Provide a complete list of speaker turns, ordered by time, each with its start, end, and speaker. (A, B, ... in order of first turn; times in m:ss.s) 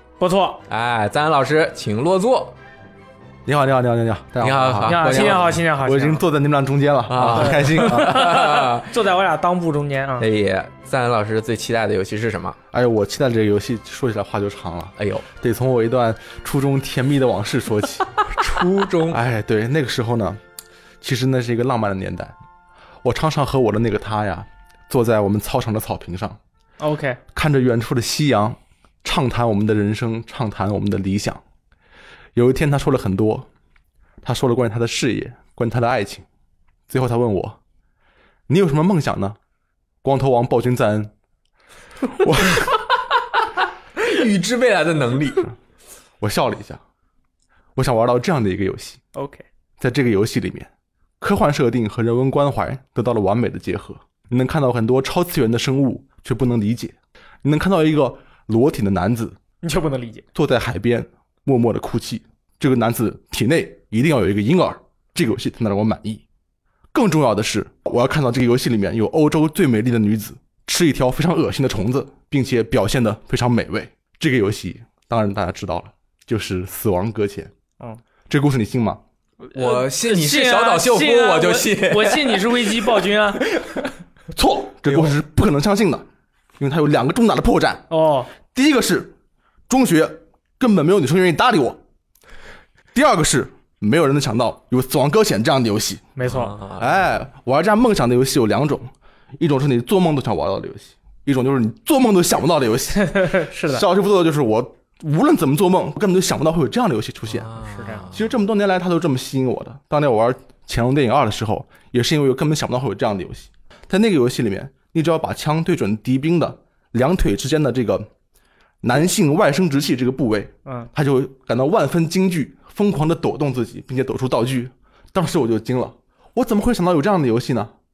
0:00.2-0:00.6 A
0:00.7-0:02.5 B
0:03.4-0:08.2 C
0:04.4-0:05.6 B
0:04.8-0:06.2 A
0:07.1-0:08.9 B
0:07.3-0:10.3 A
0:10.2-0:12.6 B
0:12.7-0:18.1 C
0:15.0-0:15.2 B
0:18.3-0:19.2 B
0:19.1-0:20.4 C
0:21.0-0:22.3 C
0:23.0-0:26.4 C
0:26.8-0:27.2 A
0:27.3-0:31.4 C
0:32.4-0:33.5 C
0:34.2-0:36.2 C
0:36.9-0:37.6 C
0:38.5-0:39.4 C
0:40.0-0:41.1 C
0:42.2-0:42.6 C
0:44.0-0:45.4 B
0:46.2-0:46.8 C
0:47.8-0:49.0 C
0:49.1-0:49.4 A
0:49.8-0:50.7 C
0:51.2-0:59.4 C
0:59.6-1:00.2 A
1:00.3-1:06.2 C
1:06.9-1:17.5 C
1:18.3-1:19.0 C
1:19.5-1:23.4 A
1:19.5-1:22.9 B
1:23.5-1:23.9 B
1:24.3-1:26.0 C
1:24.9-1:25.1 B
1:26.6-1:27.8 C
1:27.9-1:28.3 A
1:28.5-1:29.1 C
1:29.7-1:31.8 C
1:32.9-1:36.1 C
1:36.2-1:36.5 A
1:36.3-1:37.0 B
1:36.8-1:47.5 C
1:43.0-1:43.8 A
1:47.3-1:48.2 B
1:47.6-1:48.1 A
1:48.1-1:58.1 C
1:58.8-2:07.7 C